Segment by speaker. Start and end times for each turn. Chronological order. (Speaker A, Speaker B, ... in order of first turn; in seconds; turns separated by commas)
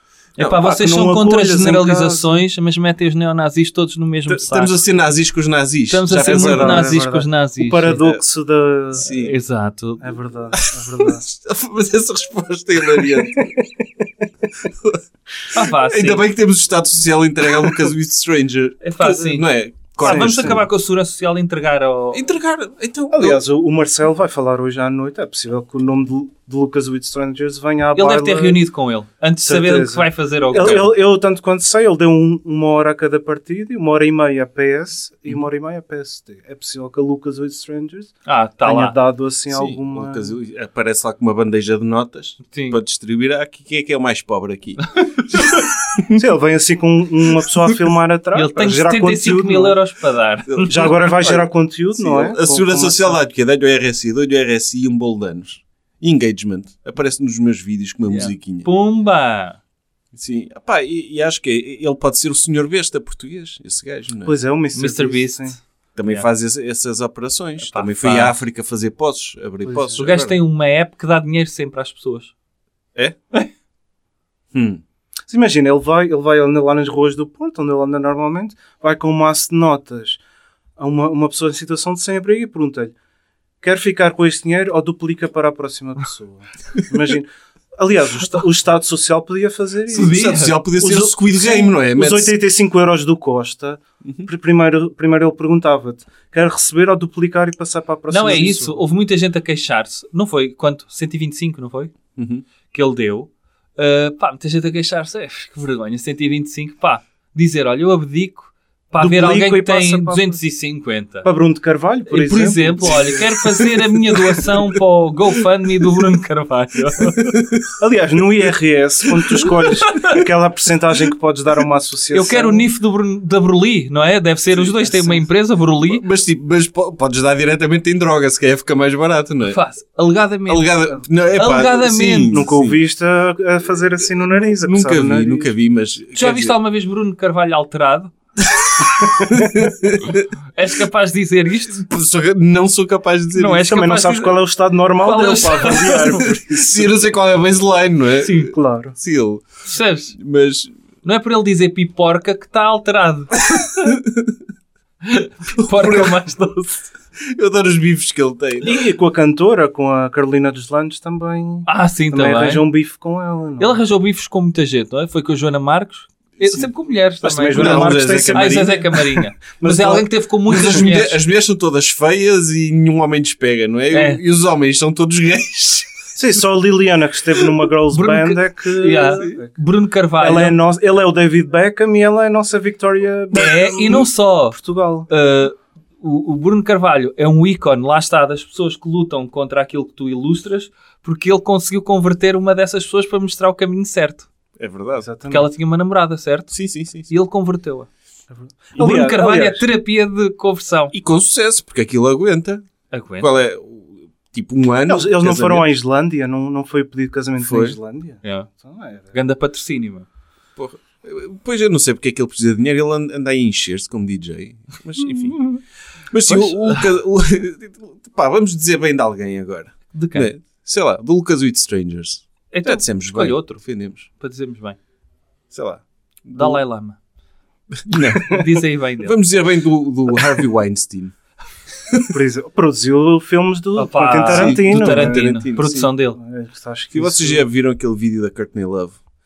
Speaker A: 0.4-4.8, Speaker B: 0.4-2.4, Speaker C: 4.3-6.9, Speaker A: 5.9-8.0, Speaker B: 6.1-9.1, Speaker C: 8.9-9.3, Speaker A: 9.0-10.1, Speaker B: 10.0-11.3, Speaker C: 10.5-13.5, Speaker B: 13.0-14.0, Speaker C: 14.6-15.0, Speaker A: 15.5-16.2, Speaker C: 15.6-20.6, Speaker A: 18.8-22.2, Speaker B: 20.0-20.6, Speaker C: 22.1-23.4, Speaker B: 23.1-28.6, Speaker A: 27.9-30.9, Speaker B: 29.4-40.4, Speaker A: 38.2-39.0, Speaker C: 39.5-46.2, Speaker A: 42.5-42.8, Speaker B: 46.1-49.8, Speaker A: 48.3-50.8, Speaker C: 50.5-51.4, Speaker B: 50.6-53.2, Speaker C: 52.0-58.7, Speaker A: 58.1-59.6, Speaker C: 60.1-64.3, Speaker B: 64.2-65.6, Speaker A: 64.7-66.2, Speaker C: 66.0-70.4, Speaker A: 67.6-68.3, Speaker B: 69.6-70.0, Speaker A: 70.0-72.3, Speaker C: 74.5-74.8, Speaker B: 75.3-80.2, Speaker B: 80.8-82.9, Speaker B: 83.6-98.8, Speaker A: 89.9-90.6, Speaker C: 89.9-92.3, Speaker A: 98.1-101.9, Speaker C: 102.2-102.4, Speaker A: 102.7-111.3, Speaker B: 109.0-110.4, Speaker B: 111.2-113.3, Speaker A: 112.1-117.3, Speaker C: 117.2-117.7, Speaker B: 117.8-122.7, Speaker A: 119.9-120.2, Speaker A: 122.1-126.0, Speaker B: 124.8-125.1, Speaker C: 125.8-129.6, Speaker A: 129.4-132.4, Speaker C: 130.5-132.8, Speaker B: 131.6-135.5, Speaker C: 134.2-136.6, Speaker A: 136.1-138.1, Speaker C: 138.5-140.3, Speaker A: 140.5-141.8, Speaker C: 141.8-143.6, Speaker A: 143.3-144.4, Speaker B: 143.5-146.9, Speaker A: 145.0-146.3, Speaker C: 146.5-149.5, Speaker A: 148.2-148.5, Speaker B: 148.5-148.9, Speaker A: 149.6-150.2, Speaker C: 150.1-150.7, Speaker A: 151.0-153.9, Speaker C: 153.9-154.3, Speaker A: 155.0-156.9, Speaker C: 155.6-156.2, Speaker C: 157.2-158.7, Speaker B: 158.6-163.8, Speaker A: 161.7-162.6, Speaker A: 163.6-171.2, Speaker C: 166.4-166.7, Speaker B: 167.2-170.1, Speaker C: 167.5-168.8, Speaker C: 170.5-175.9, Speaker A: 173.9-174.2, Speaker B: 176.2-179.6, Speaker A: 177.9-180.6, Speaker B: 180.2-185.1, Speaker A: 183.3-184.6, Speaker A: 185.1-194.3, Speaker C: 194.6-195.1, Speaker B: 195.0-195.5, Speaker A: 195.3-197.9, Speaker C: 196.5-197.1, Speaker B: 198.3-199.7, Speaker A: 198.8-200.9, Speaker C: 200.9-202.7, Speaker A: 202.9-203.3, Speaker C: 203.2-205.7, Speaker B: 204.9-209.1, Speaker C: 207.4-207.8, Speaker A: 208.2-208.5, Speaker A: 209.1-210.1, Speaker C: 210.6-215.4, Speaker C: 216.1-224.1, Speaker A: 216.3-216.8, Speaker A: 219.9-220.3, Speaker A: 222.5-224.8, Speaker C: 225.5-226.6, Speaker A: 226.3-227.0, Speaker C: 227.8-228.4, Speaker A: 228.2-229.2, Speaker C: 229.0-231.1, Speaker B: 232.1-235.4, Speaker A: 233.8-236.2, Speaker C: 234.2-235.9, Speaker B: 236.2-237.4, Speaker C: 236.9-239.0